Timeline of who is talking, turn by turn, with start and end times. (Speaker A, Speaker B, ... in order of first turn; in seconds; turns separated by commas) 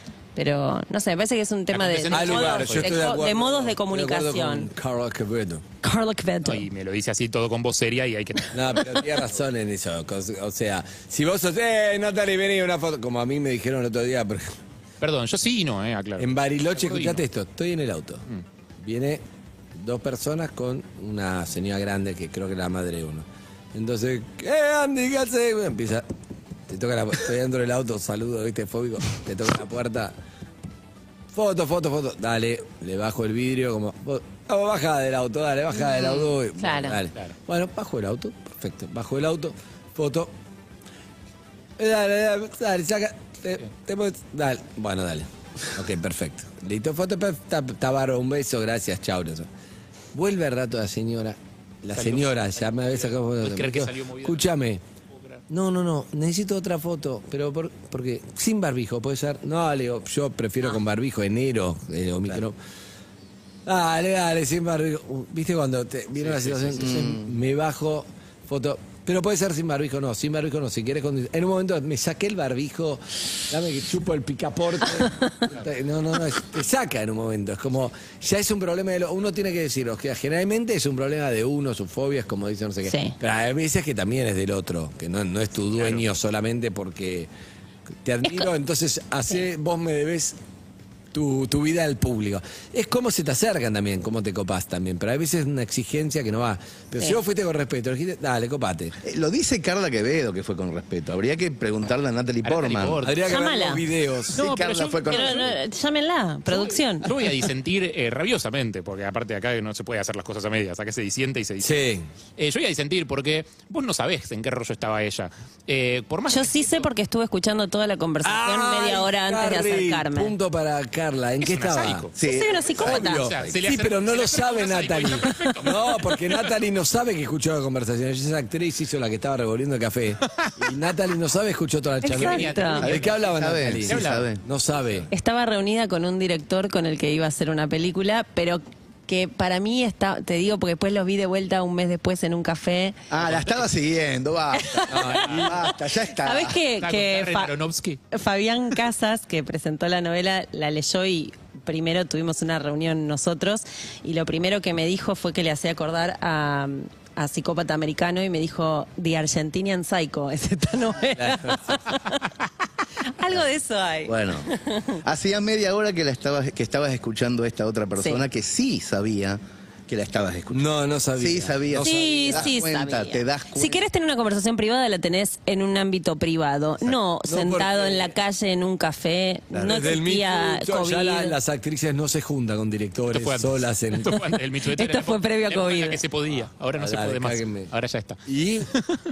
Speaker A: 0.3-4.7, Speaker B: 1.7-3.0, Speaker C: 2.1-5.6, Speaker A: 5.8-6.7, Speaker B: 6.4-8.9, Speaker C: 8.5-14.6, Speaker B: 15.0-17.2, Speaker C: 16.2-18.2, Speaker C: 18.8-19.2, Speaker C: 19.7-26.1, Speaker C: 26.7-30.1, Speaker C: 31.3-40.3, Speaker A: 36.1-37.0, Speaker C: 41.8-49.5, Speaker C: 50.1-54.8, Speaker B: 51.9-54.4, Speaker B: 55.1-55.4, Speaker C: 55.5-62.5, Speaker C: 63.6-87.3, Speaker B: 66.2-67.0, Speaker D: 66.8-67.3, Speaker A: 75.0-75.3, Speaker A: 82.8-83.2, Speaker B: 85.8-86.0, Speaker C: 88.0-90.3, Speaker C: 91.1-99.0, Speaker D: 99.0-103.0, Speaker B: 102.4-103.3, Speaker C: 103.0-104.4, Speaker A: 103.2-103.8, Speaker D: 104.3-105.5, Speaker B: 104.3-105.5, Speaker A: 105.1-107.1, Speaker B: 106.5-111.8, Speaker C: 111.6-112.1, Speaker B: 112.4-116.9, Speaker A: 116.3-120.3, Speaker C: 118.2-122.1, Speaker B: 121.4-122.1, Speaker D: 122.2-123.6, Speaker A: 122.2-123.2, Speaker C: 122.8-135.1, Speaker B: 122.9-126.0, Speaker A: 132.0-132.8, Speaker B: 132.1-133.3, Speaker D: 132.8-134.4, Speaker B: 133.8-134.3, Speaker A: 135.1-142.9, Speaker D: 143.1-146.6, Speaker A: 144.6-145.4, Speaker C: 144.9-145.6, Speaker A: 146.2-147.5, Speaker B: 146.8-148.0, Speaker A: 148.1-161.9, Speaker C: 161.2-161.9, Speaker A: 163.2-165.0, Speaker D: 164.1-164.5, Speaker D: 165.0-170.6, Speaker A: 168.0-168.2, Speaker C: 170.5-172.5, Speaker D: 171.2-173.8, Speaker A: 171.8-181.3, Speaker C: 177.2-178.1, Speaker D: 179.5-179.8, Speaker C: 179.6-184.2, Speaker B: 183.1-188.2, Speaker A: 184.7-186.0, Speaker C: 186.7-187.7, Speaker C: 188.2-188.7, Speaker B: 188.7-189.0